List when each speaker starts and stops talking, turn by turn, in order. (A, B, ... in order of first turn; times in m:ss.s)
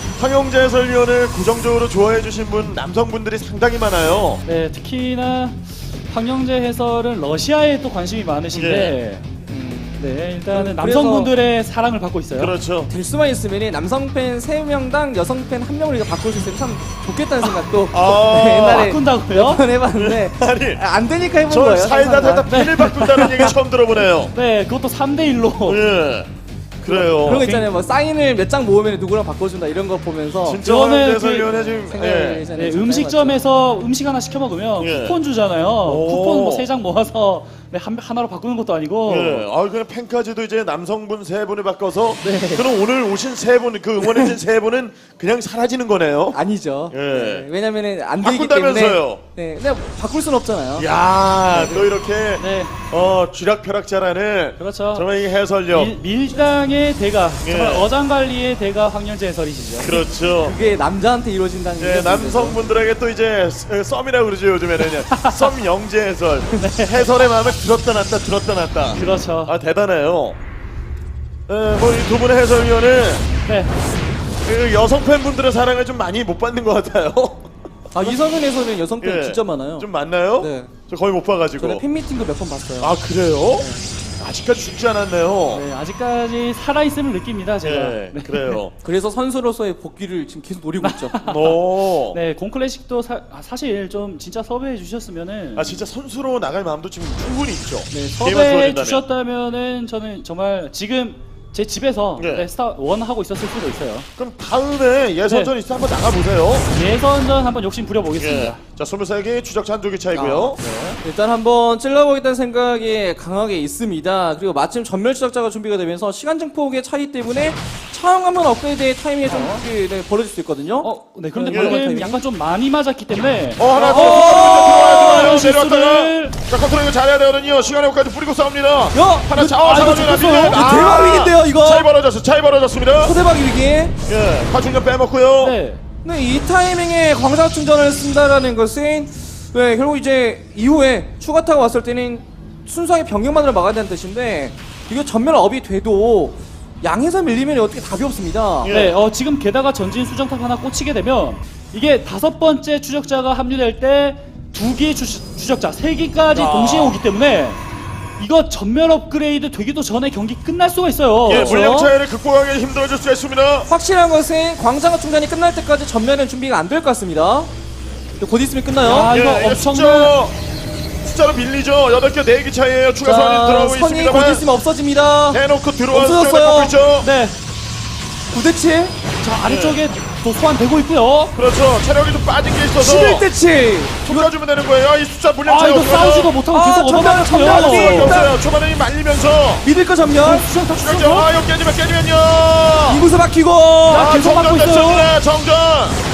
0:00.2-0:04.4 A
0:04.4-0:09.3 B
0:08.5-0:08.9 A
0:09.5-0:10.0 C
0:10.0-0:12.5 B
0:10.5-0:11.3 C
0:12.4-0:12.9 A
0:12.9-0:23.5 C
0:17.9-0:18.9 A
0:18.6-0:19.6 B
0:19.9-0:20.8 A
0:21.5-0:24.3 A
0:22.5-0:23.3 B
0:24.3-0:25.8 B
0:25.6-0:26.3 A
0:26.8-0:27.4 A
0:26.9-0:27.7 B
0:26.9-0:30.6 C
0:30.4-0:32.4 A
0:30.6-0:31.5 B
0:31.5-0:33.4 C
0:32.5-0:39.5 B
0:34.8-0:35.2 A
0:35.8-0:36.7 A
0:39.1-0:46.4 A
0:42.2-0:42.6 B
0:46.3-0:50.9 C
0:46.9-0:47.5 A
0:48.2-0:49.2 A
0:50.8-0:55.9 A
0:51.5-0:51.9 C
0:52.4-0:52.8 B
0:54.6-0:55.0 B
0:55.7-0:59.9 B
0:57.4-0:57.9 A
0:59.8-1:00.6 A
0:59.9-1:02.6 C
1:01.8-1:10.4 A
1:05.1-1:05.5 B
1:06.6-1:07.1 B
1:08.9-1:09.5 B
1:11.5-1:13.3 A
1:13.4-1:13.7 B
1:14.4-1:17.5 A
1:17.9-1:20.8 C
1:19.0-1:21.8 A
1:21.6-1:23.0 C
1:22.8-1:23.7 A
1:23.6-1:23.8 C
1:24.2-1:25.6 A
1:25.5-1:28.6 B
1:27.6-1:28.7 A
1:28.8-1:31.2 C
1:30.8-1:35.8 B
1:31.2-1:32.2 A
1:35.5-1:39.0 A
1:37.9-1:44.1 B
1:42.2-1:42.5 A
1:44.2-1:46.7 A
1:45.2-1:45.5 B
1:46.7-1:48.6 B
1:48.2-1:50.6 A
1:50.1-2:02.2 C
1:50.6-1:51.0 B
1:59.2-1:59.6 B
2:00.8-2:06.3 B
2:01.5-2:01.8 A
2:03.6-2:13.1 A
2:03.7-2:05.4 C
2:08.9-2:11.9 C
2:09.5-2:10.7 B
2:13.0-2:14.0 C
2:14.1-2:15.6 A
2:15.4-2:15.8 B
2:16.0-2:28.7 C
2:28.6-2:29.0 A
2:28.7-2:37.6 B
2:36.3-2:37.0 A
2:38.2-2:41.9 B
2:41.2-2:43.7 A
2:41.3-2:41.6 C
2:43.7-2:47.5 C
2:48.2-2:49.1 C
2:48.8-2:50.1 B
2:49.1-2:50.3 A
2:51.0-2:54.4 A
2:53.0-2:56.7 C
2:55.3-2:57.1 A
2:57.0-2:57.4 B
2:58.3-2:58.9 C
2:59.2-3:01.3 B
2:59.4-2:59.8 A
3:01.3-3:03.2 A
3:02.8-3:04.3 C
3:04.0-3:06.3 A
3:05.4-3:08.2 B
3:06.5-3:08.4 C
3:07.3-3:09.6 A
3:09.6-3:10.4 C
3:10.2-3:11.3 B
3:10.8-3:13.0 A
3:12.9-3:14.0 C
3:13.9-3:15.1 B
3:13.9-3:16.0 A